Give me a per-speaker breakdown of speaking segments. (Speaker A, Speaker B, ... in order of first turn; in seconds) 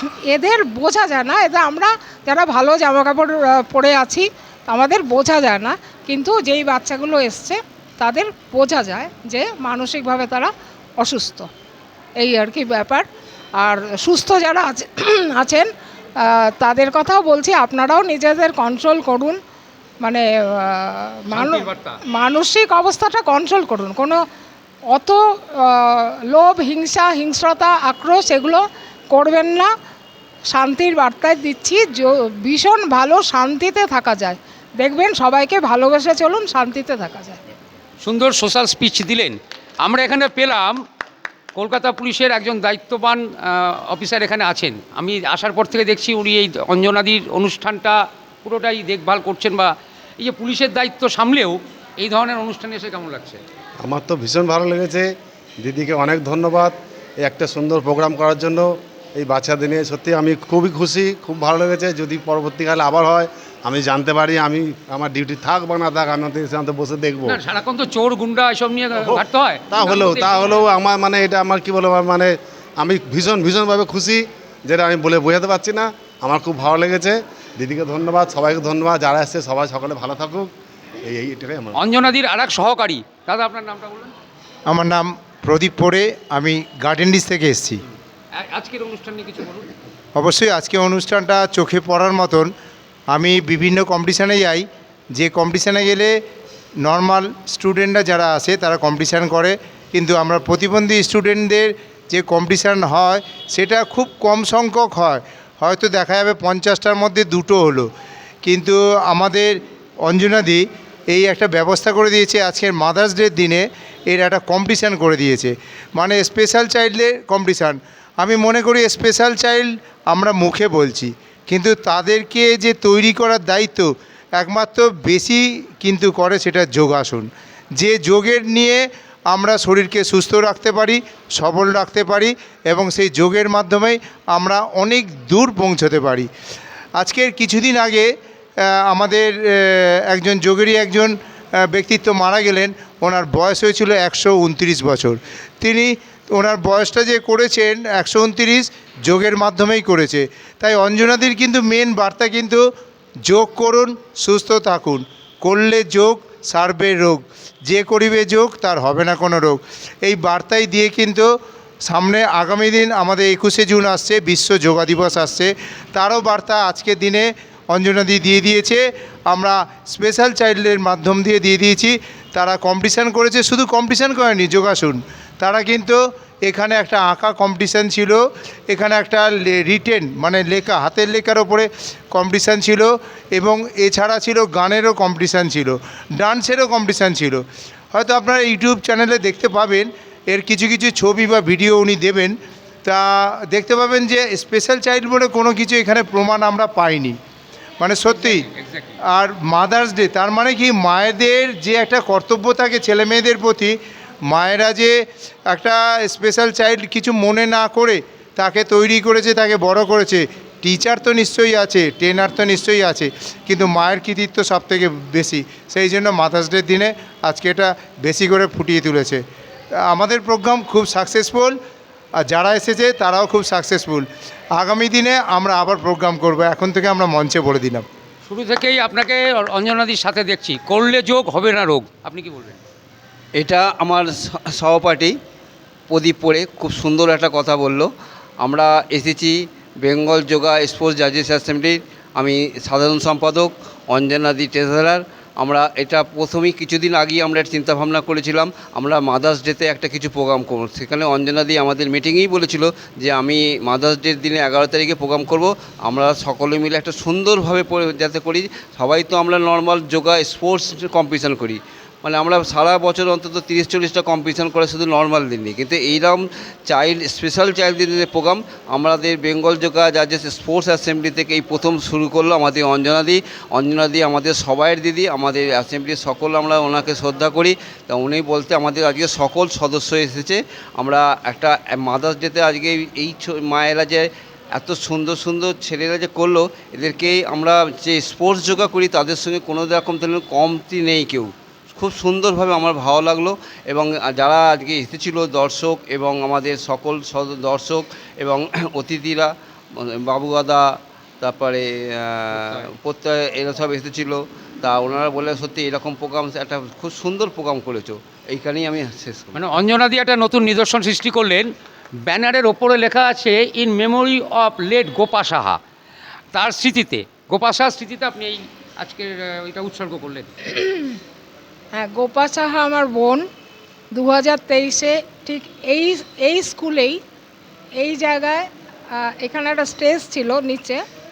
Speaker A: 0.3-11.5, 12.2-13.1, 13.6-15.7, 16.2-19.4, 20.0-24.2, 24.9-29.7, 30.5-37.4, 320.5-321.0, 321.7-323.2, 323.9-327.0, 327.8-330.8
Speaker B: 21.3-22.0, 38.0-40.8, 41.6-53.4, 67.3-70.6, 81.8-84.1, 88.4-89.7, 198.1-199.0, 228.3-232.6, 302.4-302.6, 309.3-311.5, 312.1-315.6, 316.3-320.3
Speaker C: 53.8-67.4, 69.1-80.5, 81.0-81.8
Speaker D: 84.7-87.8, 90.2-92.5, 93.1-96.1, 96.8-107.9, 108.4-109.5, 110.0-136.3, 137.0-138.1, 138.7-152.6, 153.3-161.3, 161.9-187.4, 187.9-197.2, 197.8-198.5, 199.1-203.8, 204.3-204.9, 205.5-219.2, 219.9-221.6, 222.2-227.9
Speaker E: 233.4-235.2, 235.9-309.4